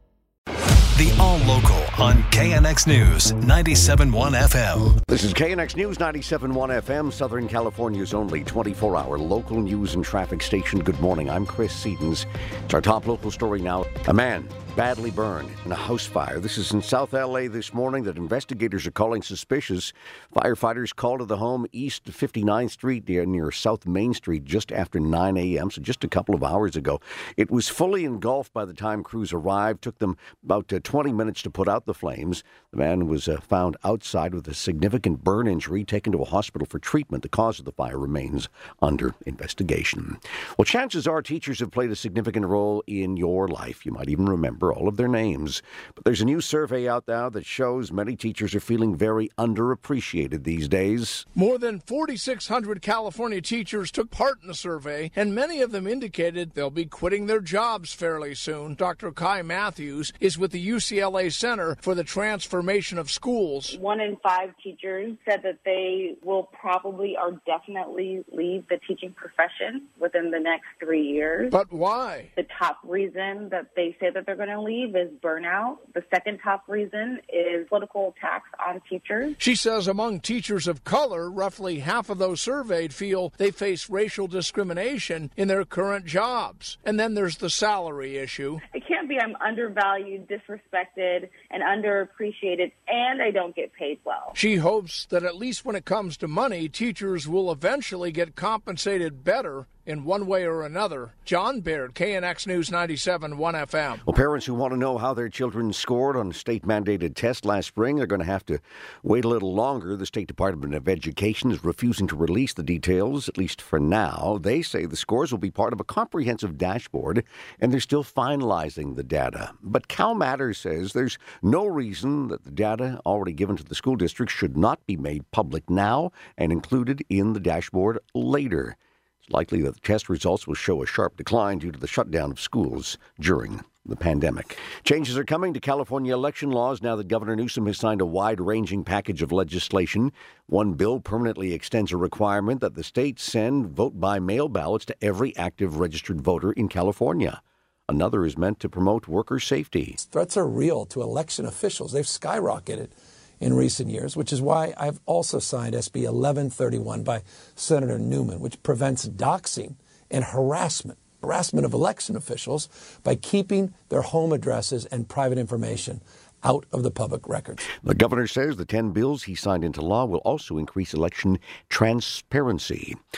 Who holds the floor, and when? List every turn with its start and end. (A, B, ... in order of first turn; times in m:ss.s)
0:00.9-0:05.0 A
0:05.1-0:51.2 B
0:51.4-1:03.7 C
1:03.7-1:11.6 D
1:11.5-1:12.3 C
1:12.4-1:19.4 D
1:19.4-1:28.6 C
1:28.7-1:34.4 D
1:34.4-1:44.0 C
1:44.0-2:30.0 B
2:30.0-2:47.6 E
2:47.7-2:53.0 B